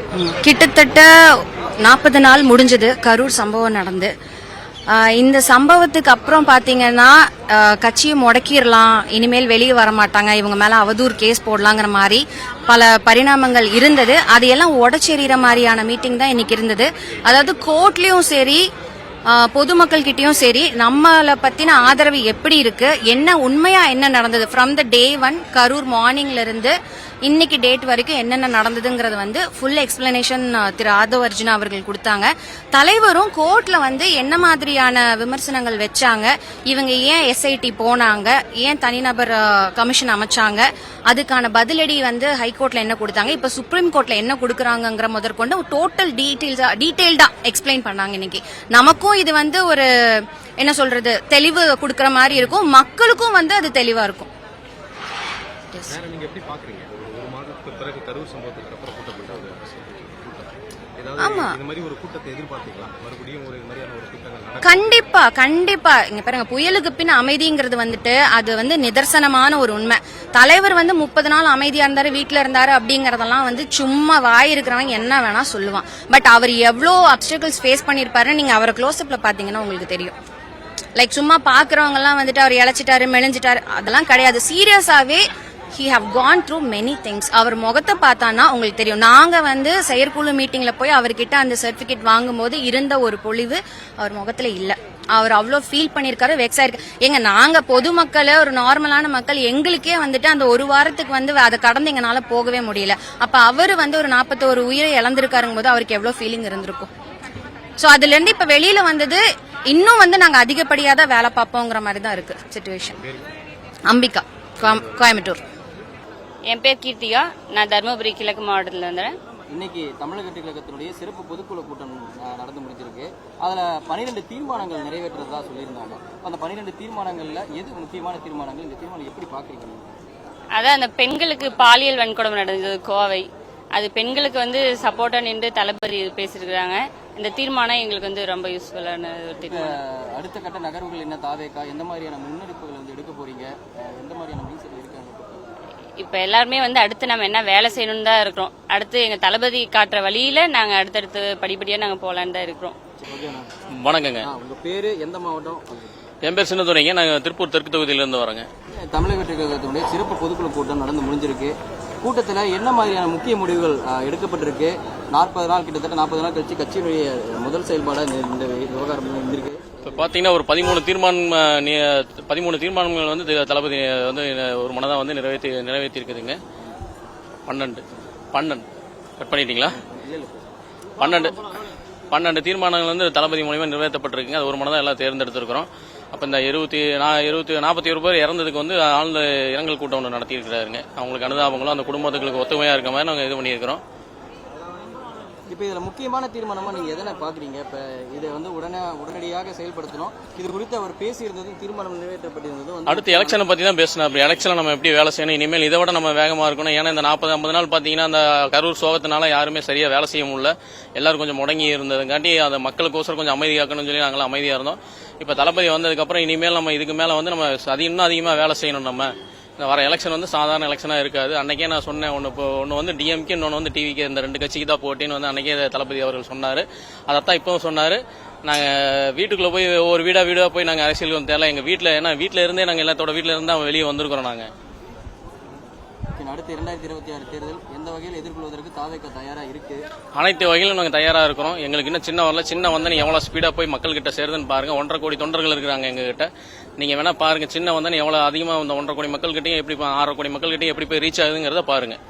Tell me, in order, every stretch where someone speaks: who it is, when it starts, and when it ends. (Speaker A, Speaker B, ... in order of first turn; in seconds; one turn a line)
Speaker A: 0.2-1.1
Speaker A: 1.8-4.1
Speaker A: 4.9-18.6
Speaker A: 19.3-54.3
Speaker B: 55.9-65.0
Speaker A: 61.2-61.5
Speaker A: 64.6-80.1
Speaker A: 81.0-106.9
Speaker A: 107.8-113.0
Speaker B: 112.8-113.3
Speaker A: 113.9-115.4
Speaker C: 116.5-119.1
Speaker D: 119.5-129.9
Speaker C: 130.5-139.8
Speaker D: 139.4-145.4
Speaker C: 146.0-152.8
Speaker D: 153.0-153.5
Speaker E: 153.7-154.3
Speaker D: 154.2-155.9
Speaker E: 156.2-158.5
Speaker D: 158.7-170.1
Speaker E: 169.8-176.4
Speaker E: 177.4-178.7
Speaker E: 179.2-179.8
Speaker D: 179.7-180.5
Speaker E: 181.0-181.4
Speaker E: 182.1-193.8
Speaker D: 195.5-203.4
Speaker E: 202.9-234.5
Speaker D: 236.2-239.8
Speaker E: 240.1-252.0